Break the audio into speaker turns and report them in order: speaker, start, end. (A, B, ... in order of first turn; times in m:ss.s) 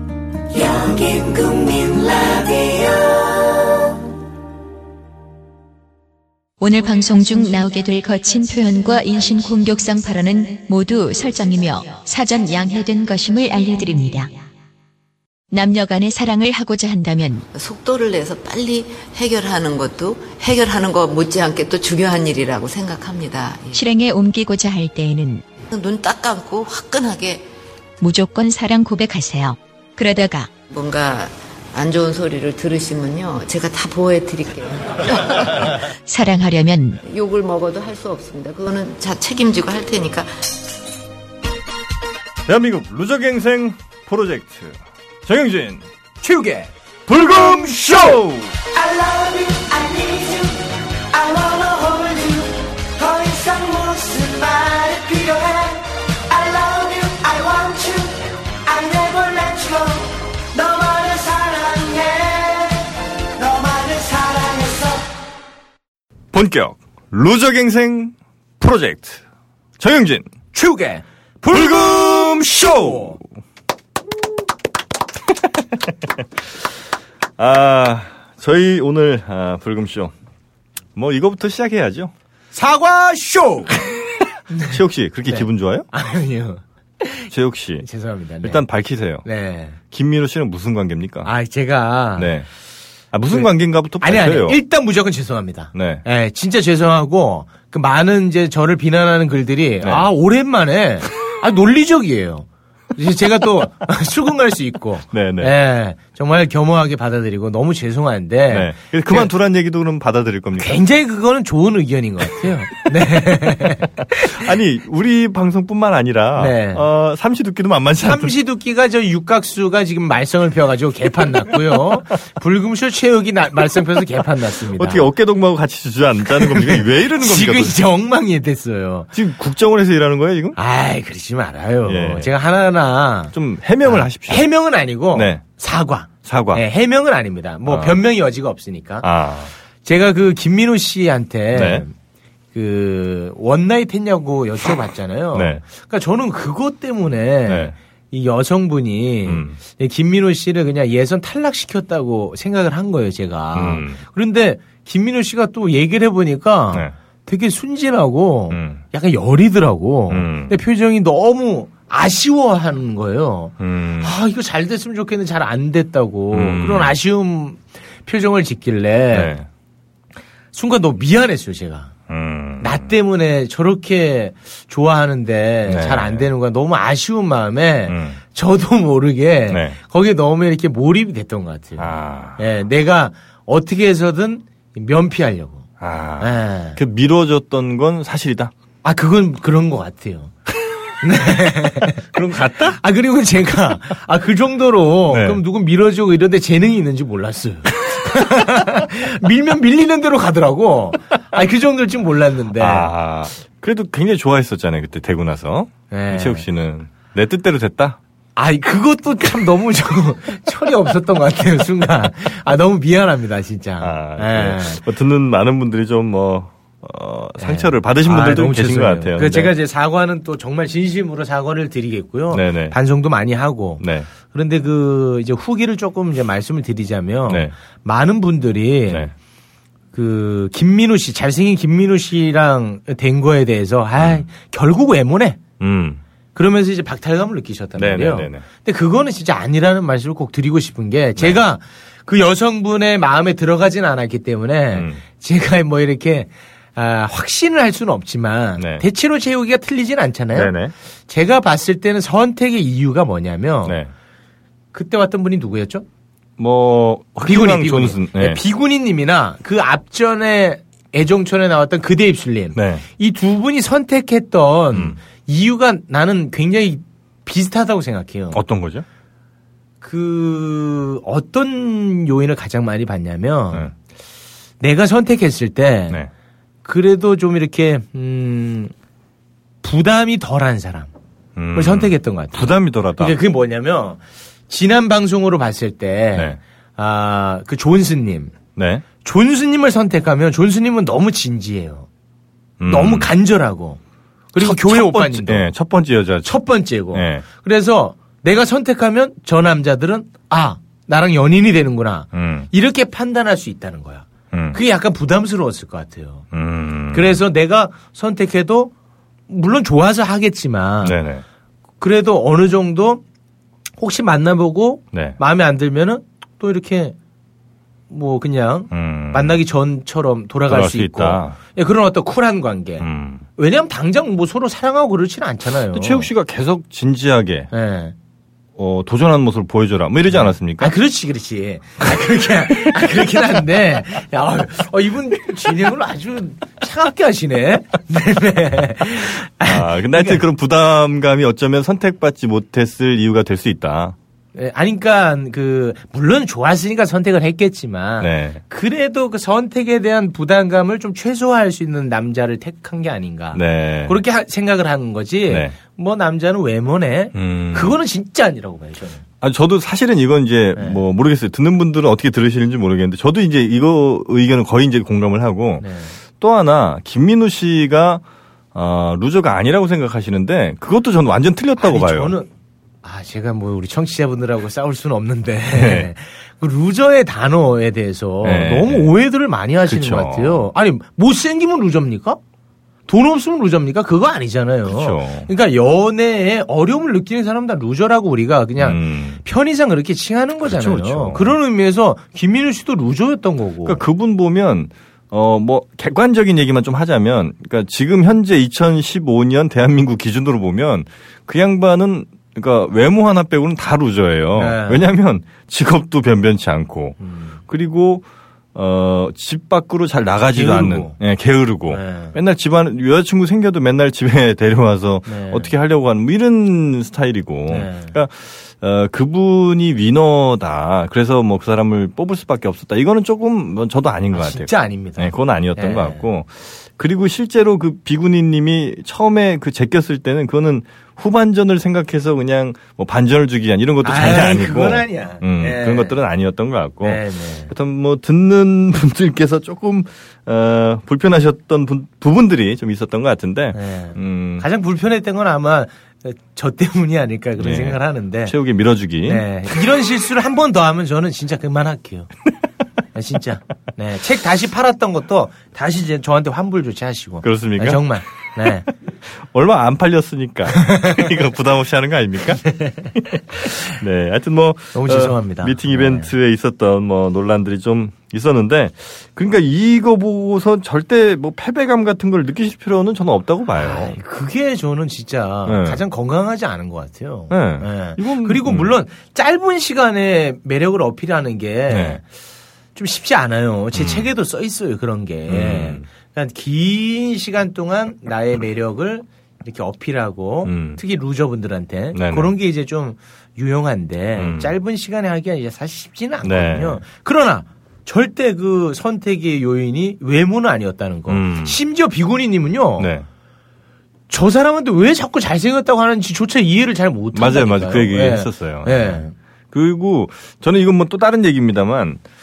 0:01.1-0:02.3 A
0:06.6-0:14.3 B
0:15.5-0:17.5 B
0:17.5-0:23.8 C
0:23.7-0:25.4 B
0:25.7-0:27.4 C
0:28.0-0:30.5 B
0:30.7-0:35.7 C
0:36.1-0:37.0 B
0:37.0-0:40.4 C
0:42.5-0:45.8 D
0:46.2-0:46.7 E
0:47.1-0:48.6 D
0:48.8-0:50.6 A
0:51.1-0:52.7 A
0:54.0-0:58.1 A
0:58.7-1:00.1 A
1:00.7-1:01.2 A
1:01.7-1:02.1 A
1:03.5-1:05.0 A
1:06.3-1:09.2 D
1:09.8-1:10.3 D
1:10.5-1:13.2 E
1:11.5-1:13.2 D
1:17.4-1:20.1 D
1:21.0-1:22.1 D
1:22.5-1:23.9 E
1:24.5-1:27.3 E
1:24.6-1:25.9 D
1:27.3-1:27.9 D
1:27.8-1:28.6 E
1:28.4-1:29.2 D
1:29.2-1:29.8 E
1:29.9-1:31.3 D
1:31.2-1:32.3 E
1:32.2-1:32.5 D
1:33.1-1:34.6 D
1:33.3-1:49.3 E
1:35.7-1:36.0 D
1:39.8-1:40.1 D
1:45.1-1:45.5 D
1:48.5-1:50.8 D
1:50.6-1:54.3 E
1:54.0-1:58.3 D
1:56.4-1:56.9 E
1:58.0-2:05.1 E
2:04.7-2:07.8 D
2:06.3-2:09.1 E
2:09.1-2:10.6 D
2:10.6-2:19.1 E
2:11.8-2:12.3 D
2:13.3-2:14.5 D
2:15.1-2:15.4 D
2:16.2-2:16.6 D
2:17.7-2:18.0 D
2:19.0-2:19.5 D
2:19.8-2:21.9 E
2:21.5-2:21.8 D
2:22.5-2:49.3 E
2:25.3-2:25.6 D
2:27.5-2:27.8 D
2:29.3-2:29.6 D
2:33.5-2:34.0 D
2:38.5-2:38.8 D
2:40.1-2:40.6 D
2:43.6-2:44.1 D
2:46.3-2:47.0 D
2:49.1-2:49.5 D
2:50.5-2:51.9 E
2:52.1-2:52.9 D
2:52.6-3:05.6 E
2:55.7-2:56.3 D
2:57.9-2:58.2 D
2:59.5-2:59.8 D
3:01.8-3:02.4 D
3:05.8-3:08.5 D
3:06.2-3:06.8 E
3:08.8-3:10.3 E
3:11.0-3:12.0 E
3:12.0-3:12.8 D
3:12.7-3:22.9 E
3:15.1-3:15.4 D
3:22.6-3:28.0 D
3:25.9-3:26.5 E
3:28.4-3:34.8 E
3:33.8-3:39.5 D
3:37.4-3:49.1 E
3:42.3-3:42.8 D
3:43.8-3:44.1 D
3:47.3-3:47.5 D
3:49.9-3:55.4 E
3:54.0-3:54.2 D
3:55.6-3:56.0 D
3:56.4-4:10.6 E
3:57.8-3:58.4 D
4:04.7-4:05.0 D
4:08.6-4:08.8 D
4:10.3-4:10.7 D
4:11.1-4:13.8 E
4:14.7-4:15.8 E
4:16.4-4:18.4 D
4:17.2-4:28.4 E
4:22.6-4:22.8 D
4:24.7-4:25.0 D
4:28.3-4:28.9 D
4:29.8-4:33.7 E
4:34.6-4:36.0 E
4:36.6-4:38.7 E
4:39.6-4:40.9 E
4:41.4-4:43.2 D
4:41.5-4:48.3 E
4:48.6-4:48.8 D
4:49.0-4:51.9 E
4:52.6-4:53.1 D
4:52.7-4:53.8 E
4:54.3-4:55.5 E
4:54.4-4:57.2 D
4:56.2-5:06.3 E
5:02.1-5:02.5 D
5:04.3-5:04.6 D
5:06.3-5:07.2 D
5:06.9-5:08.7 E
5:09.3-5:11.0 E
5:10.8-5:11.2 D
5:11.8-5:13.0 E
5:13.8-5:17.0 E
5:14.9-5:15.2 D
5:17.9-5:26.1 E
5:18.7-5:19.4 D
5:20.5-5:21.4 D
5:22.8-5:23.2 D
5:25.7-5:27.5 D
5:27.5-5:27.9 E
5:28.6-5:30.7 D
5:30.1-5:40.2 E
5:39.4-5:44.0 D
5:44.4-5:59.0 E
5:48.0-5:48.4 D
5:53.3-5:54.0 D
5:55.3-5:55.6 D
5:57.2-5:57.8 D
5:59.2-6:05.6 D
6:05.6-6:06.0 E
6:06.2-6:08.0 D
6:08.5-6:12.1 D
6:11.6-6:12.3 E
6:12.8-6:22.2 E
6:15.5-6:15.9 D
6:18.2-6:19.0 D
6:19.7-6:20.5 D
6:22.9-6:33.8 E
6:24.7-6:25.3 D
6:28.6-6:29.2 D
6:30.4-6:31.4 D
6:33.6-6:47.0 D
6:44.4-6:44.9 E
6:47.0-6:47.4 E
6:47.5-7:24.4 D
6:50.3-6:51.0 E
6:51.7-6:52.2 E
6:55.1-6:55.5 E
6:57.5-6:57.9 E
7:04.1-7:06.0 E
7:13.8-7:16.0 E
7:16.8-7:17.5 E
7:23.5-7:28.4 E
7:27.4-7:29.3 D
7:29.1-7:32.1 E
7:33.0-7:38.7 E
7:37.2-7:38.0 D
7:39.2-7:54.0 D
7:40.6-7:40.9 E
7:42.6-7:42.8 E
7:44.7-7:46.1 E
7:53.6-8:02.0 E
7:55.5-7:55.8 D
7:57.3-7:58.7 D
8:01.7-8:02.0 D
8:02.8-8:22.9 E
8:03.7-8:04.1 D
8:05.3-8:05.8 D
8:10.4-8:10.8 D
8:11.9-8:12.3 D
8:14.2-8:14.5 D
8:16.2-8:16.8 D
8:21.1-8:21.6 D
8:22.8-8:23.1 D
8:24.1-8:29.1 E
8:27.1-8:32.0 D